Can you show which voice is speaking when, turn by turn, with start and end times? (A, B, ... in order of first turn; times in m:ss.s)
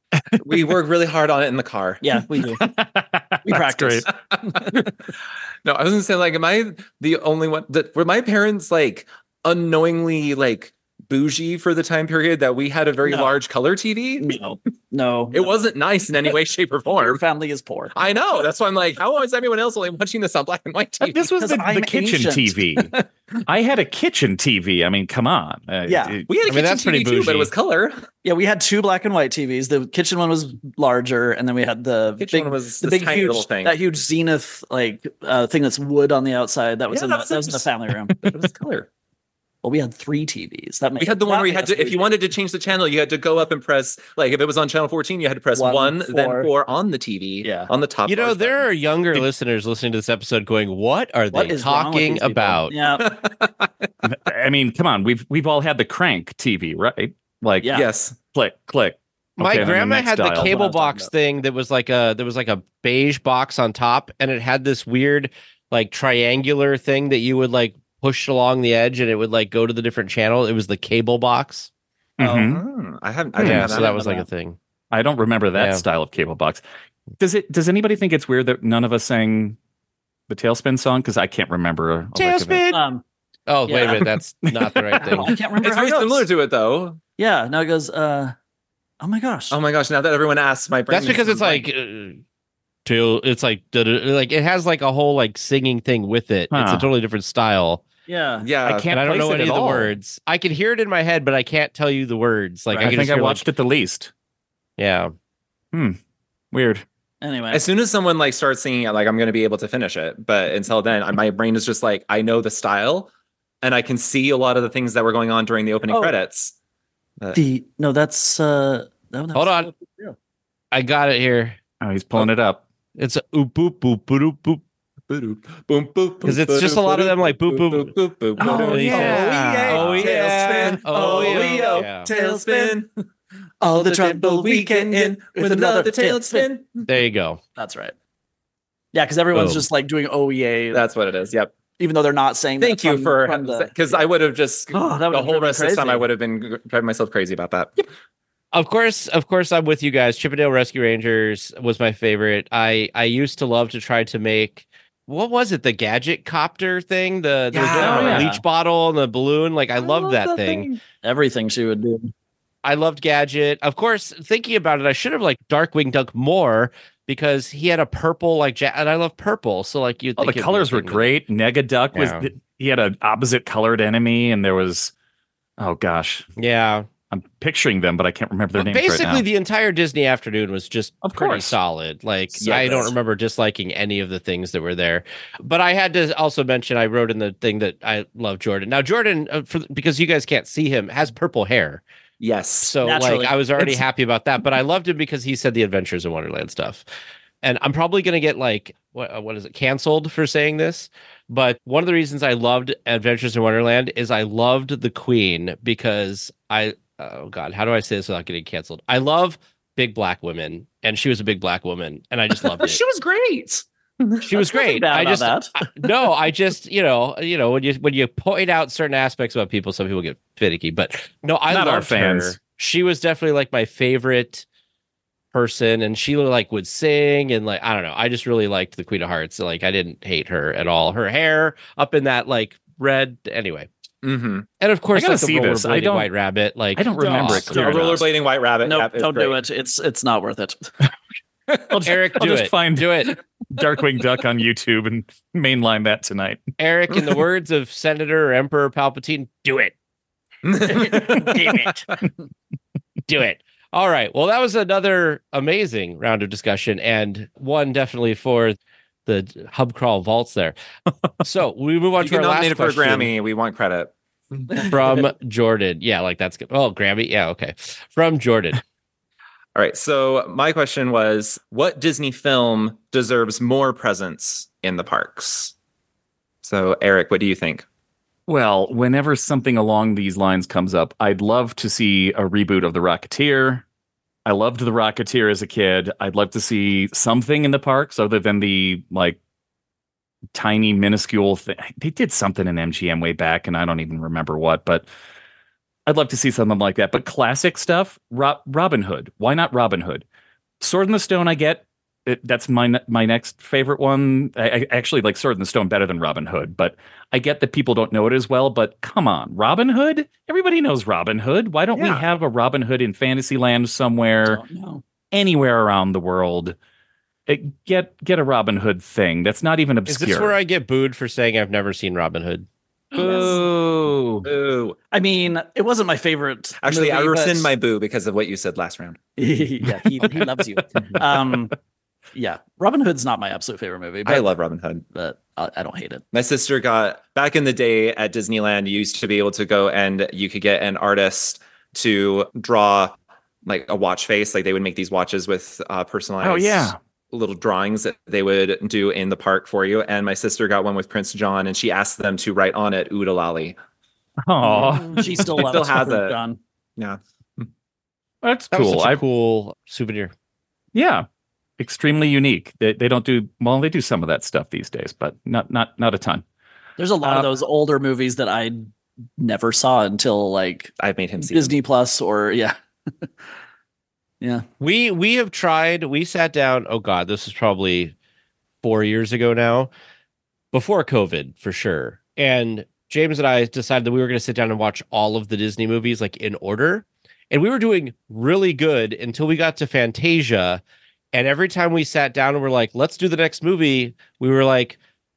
0:00.4-0:02.1 A
0:02.0-0:02.7 B
0:02.6-0:04.1 C
0:03.4-0:04.7 B
0:04.5-0:04.9 A
0:05.6-0:14.4 A
0:13.0-0:13.3 B
0:14.2-0:15.5 B
0:15.3-0:17.2 A
0:17.0-0:17.9 B
0:17.9-0:21.4 A
0:21.0-0:22.9 C
0:21.4-0:23.0 B
0:23.4-0:26.3 C
0:25.9-0:26.2 B
0:26.3-0:28.0 A
0:26.5-0:27.5 D
0:28.2-0:38.3 B
0:32.2-0:33.7 A
0:36.9-0:38.9 A
0:39.6-0:42.1 B
0:41.0-0:48.6 A
0:45.6-0:46.5 B
0:47.4-0:47.7 B
0:48.0-0:52.7 D
0:51.3-0:53.1 B
0:53.0-0:53.5 A
0:54.0-0:57.8 C
0:57.7-0:58.1 A
0:58.3-1:00.6 C
0:59.4-1:11.7 D
1:00.3-1:01.1 B
1:12.2-1:12.6 C
1:12.3-1:14.0 A
1:13.4-1:14.6 D
1:13.4-1:13.7 C
1:13.6-1:14.2 B
1:14.9-1:16.6 C
1:15.6-1:15.8 D
1:17.2-1:19.6 C
1:20.3-1:22.6 C
1:22.1-1:22.8 D
1:22.7-1:23.0 B
1:23.5-1:25.3 D
1:23.7-1:24.0 B
1:24.5-1:25.1 C
1:25.0-1:26.2 B
1:25.6-1:27.0 A
1:27.2-1:28.3 B
1:29.0-1:29.6 B
1:29.5-1:31.6 A
1:30.9-1:32.2 D
1:32.8-1:37.8 D
1:36.5-1:36.9 C
1:38.1-1:38.5 B
1:38.4-1:38.9 A
1:38.6-1:39.9 C
1:38.9-1:43.5 D
1:42.7-1:43.0 B
1:42.8-1:44.1 C
1:44.8-1:45.1 D
1:45.7-1:46.0 C
1:46.5-1:46.8 C
1:47.2-1:47.6 B
1:47.5-1:53.1 A
1:53.6-1:56.5 A
1:55.9-1:56.2 B
1:57.3-2:00.2 B
1:59.3-1:59.7 D
2:00.7-2:01.6 D
2:01.8-2:02.6 C
2:02.9-2:04.6 D
2:05.1-2:12.9 A
2:06.2-2:12.1 D
2:08.4-2:12.8 B
2:08.4-2:10.0 C
2:13.6-2:16.5 B
2:13.7-2:16.9 A
2:16.9-2:17.4 D
2:17.6-2:17.9 B
2:18.9-2:20.8 B
2:19.3-2:19.6 D
2:20.7-2:21.5 A
2:21.8-2:24.1 B
2:22.6-2:27.8 A
2:24.7-2:26.1 B
2:28.5-2:40.7 D
2:37.5-2:38.3 A
2:37.7-2:38.4 B
2:37.8-2:38.3 C
2:39.8-2:40.8 A
2:41.0-2:42.1 B
2:42.6-2:51.1 D
2:50.2-2:54.9 C
2:51.9-2:52.3 D
2:55.6-2:56.2 C
2:56.4-2:56.9 D
2:57.1-2:59.2 C
2:58.5-3:11.8 D
3:01.0-3:01.6 C
3:02.4-3:02.9 A
3:12.2-3:12.8 A
3:12.6-3:16.8 D
3:12.8-3:13.8 B
3:17.4-3:32.8 D
3:32.4-3:34.2 A
3:34.2-3:44.4 D
3:34.3-3:35.5 B
3:41.5-3:42.4 C
3:45.3-3:53.7 D
3:54.0-3:54.5 A
3:54.6-3:57.8 D
3:54.9-3:56.1 C
3:56.7-3:58.0 C
3:57.0-3:58.0 B
3:57.4-3:59.4 A
3:58.6-4:00.6 B
4:01.7-4:06.4 C
4:01.8-4:03.2 D
4:06.6-4:09.7 D
4:10.4-4:11.7 A
4:10.6-4:12.0 B
4:13.1-4:20.5 D
4:21.2-4:23.1 D
4:22.0-4:24.7 A
4:24.6-4:28.6 D
4:29.5-4:35.5 A
4:36.4-4:37.6 A
4:38.3-4:43.6 C
4:44.2-4:49.2 C
4:50.3-4:54.9 C
4:55.8-5:00.0 C
5:00.6-5:14.4 C
5:11.7-5:12.0 A
5:14.2-5:14.8 B
5:15.1-5:16.6 C
5:17.3-5:20.4 C
5:19.9-5:22.5 D
5:22.9-5:24.3 C
5:23.0-5:23.4 B
5:23.0-5:23.3 A
5:24.2-5:24.8 A
5:24.9-5:27.5 B
5:26.6-5:29.0 A
5:29.2-5:31.5 B
5:32.1-5:34.2 B
5:34.0-5:34.8 A
5:34.9-5:36.0 B
5:36.1-5:53.6 A
5:46.2-5:46.8 C
5:54.2-5:55.3 C
5:54.4-5:56.4 B
5:55.0-5:56.2 A
5:56.8-5:57.5 A
5:58.2-5:59.0 C
5:58.5-6:00.1 D
6:00.7-6:01.0 C
6:01.6-6:06.2 C
6:06.8-6:12.6 B
6:07.0-6:07.3 C
6:10.8-6:11.5 A
6:14.6-6:17.9 D
6:18.6-6:19.7 D
6:20.5-6:30.6 D
6:31.1-6:34.8 D